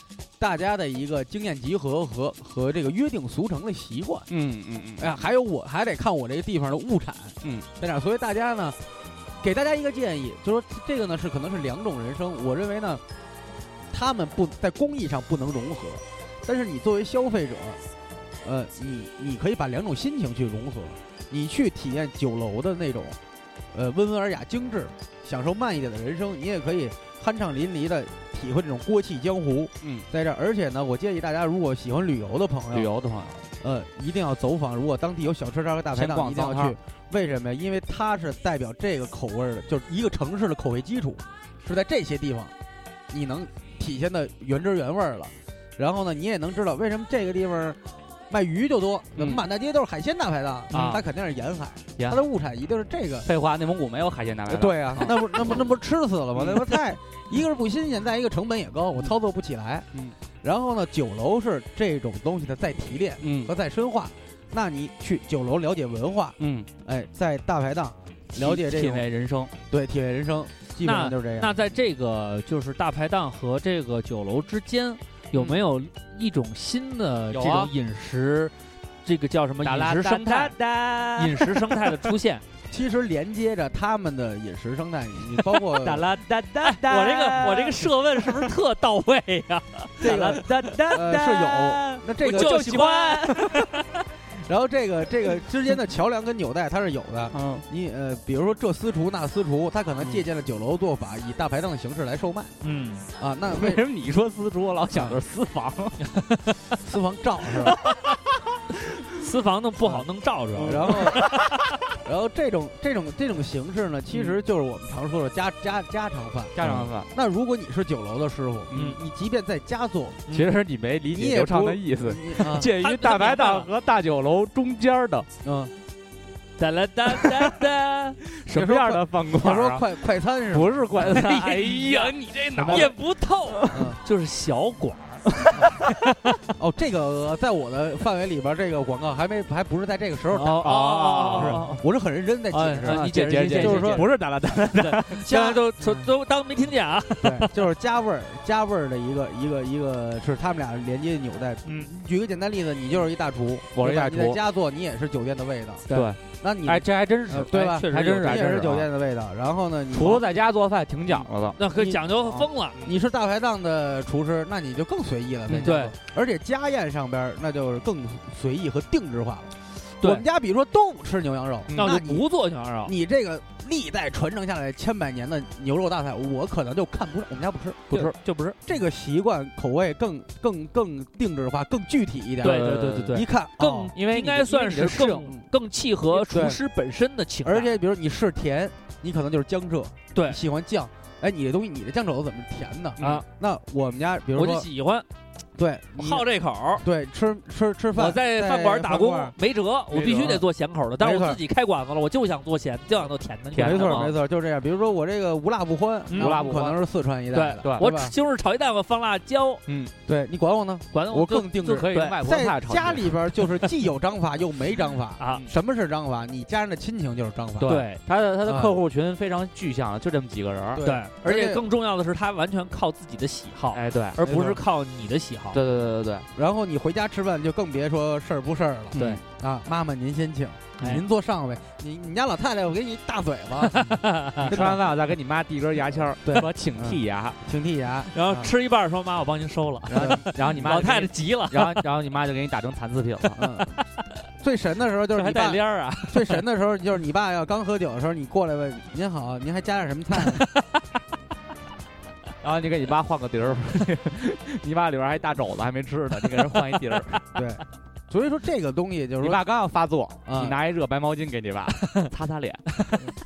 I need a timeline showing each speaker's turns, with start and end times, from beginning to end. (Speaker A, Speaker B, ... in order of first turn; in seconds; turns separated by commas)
Speaker A: 0.4-4.3, Speaker B: 4.3-5.2, Speaker A: 5.0-8.8, Speaker A: 9.4-13.0, Speaker A: 13.9-17.8, Speaker A: 18.4-23.2, Speaker A: 23.7-32.9, Speaker B: 32.7-33.4, Speaker A: 33.6-42.5, Speaker B: 35.9-36.8, Speaker A: 43.1-53.3, Speaker B: 49.2-49.4, Speaker B: 50.7-51.0, Speaker B: 52.0-52.3, Speaker B: 53.2-55.3, Speaker A: 54.5-59.9, Speaker B: 56.4-56.8, Speaker A: 60.4-69.1, Speaker B: 63.2-63.5, Speaker B: 66.4-66.7, Speaker B: 68.3-69.5, Speaker A: 69.7-71.5, Speaker C: 70.8-78.5, Speaker B: 77.3-77.7, Speaker C: 79.0-80.5, Speaker B: 79.6-82.2, Speaker C: 81.2-82.4, Speaker A: 82.7-86.1, Speaker B: 85.5-88.5, Speaker C: 86.6-90.7, Speaker B: 90.0-93.6, Speaker A: 90.0-92.8, Speaker C: 92.2-94.0, Speaker A: 94.3-102.5, Speaker B: 97.3-97.7, Speaker C: 102.6-103.1, Speaker A: 103.2-103.8, Speaker B: 103.5-106.2, Speaker A: 104.9-105.2, Speaker C: 106.0-106.6, Speaker A: 106.8-107.8, Speaker C: 107.7-108.2, Speaker C: 109.2-111.6, Speaker B: 110.5-111.6, Speaker A: 110.7-111.3, Speaker A: 112.0-120.3, Speaker B: 116.5-117.1, Speaker B: 118.7-119.0, Speaker B: 120.3-125.3, Speaker A: 121.1-122.7, Speaker C: 122.6-123.7, Speaker A: 125.4-125.7, Speaker C: 126.6-129.0, Speaker B: 127.1-127.6, Speaker B: 128.4-133.9, Speaker A: 129.3-131.2, Speaker C: 131.0-136.1, Speaker A: 132.6-132.9, Speaker A: 133.7-134.0, Speaker A: 136.6-144.1, Speaker C: 140.3-141.8, Speaker B: 140.6-141.7, Speaker C: 142.5-144.2, Speaker B: 142.8-145.4, Speaker C: 144.7-147.5, Speaker A: 145.3-146.0, Speaker A: 147.2-155.9, Speaker B: 153.7-154.4, Speaker C: 155.9-156.1, Speaker B: 155.9-158.9, Speaker A: 156.4-160.3, Speaker C: 157.5-158.5, Speaker B: 159.9-161.6, Speaker A: 161.1-172.2, Speaker C: 161.6-162.8, Speaker B: 165.5-165.7, Speaker C: 165.6-165.9, Speaker C: 171.8-172.9, Speaker A: 172.8-178.1, Speaker C: 177.9-178.6, Speaker A: 178.7-183.9, Speaker C: 182.4-187.7, Speaker B: 182.4-183.2, Speaker B: 183.9-185.4, Speaker A: 186.3-186.6, Speaker A: 187.4-194.7, Speaker C: 190.1-190.4, Speaker B: 193.0-193.2, Speaker C: 193.0-193.2, Speaker C: 194.3-195.1, Speaker A: 195.6-196.2, Speaker C: 195.9-196.8, Speaker A: 196.8-199.3, Speaker C: 197.9-204.1, Speaker B: 199.9-200.4, Speaker A: 201.0-201.4, Speaker B: 203.5-204.1, Speaker A: 203.6-208.2, Speaker C: 206.1-206.4, Speaker B: 206.2-206.8, Speaker C: 207.3-209.6, Speaker B: 207.6-207.9, Speaker B: 209.7-209.9, Speaker A: 210.1-217.8, Speaker C: 210.9-212.2, Speaker B: 211.7-213.2, Speaker C: 215.2-215.5, Speaker B: 217.6-220.8, Speaker C: 217.7-218.0, Speaker A: 218.4-218.8, Speaker A: 220.7-221.6, Speaker C: 220.8-225.6, Speaker B: 223.7-224.2, Speaker A: 224.2-224.6, Speaker B: 225.5-226.3, Speaker A: 226.3-234.8, Speaker C: 228.9-229.2, Speaker B: 228.9-229.2, Speaker C: 230.8-231.1, Speaker C: 233.6-234.6, Speaker B: 234.4-237.4, Speaker A: 236.2-238.5, Speaker C: 238.1-241.8, Speaker B: 239.9-243.4, Speaker A: 239.9-240.8, Speaker A: 243.4-243.8, Speaker C: 243.7-244.1, Speaker A: 244.4-250.5, Speaker C: 245.2-246.4, Speaker C: 250.2-250.8, Speaker B: 252.4-257.2, Speaker A: 257.3-259.4, Speaker B: 259.2-263.0, Speaker A: 260.2-260.6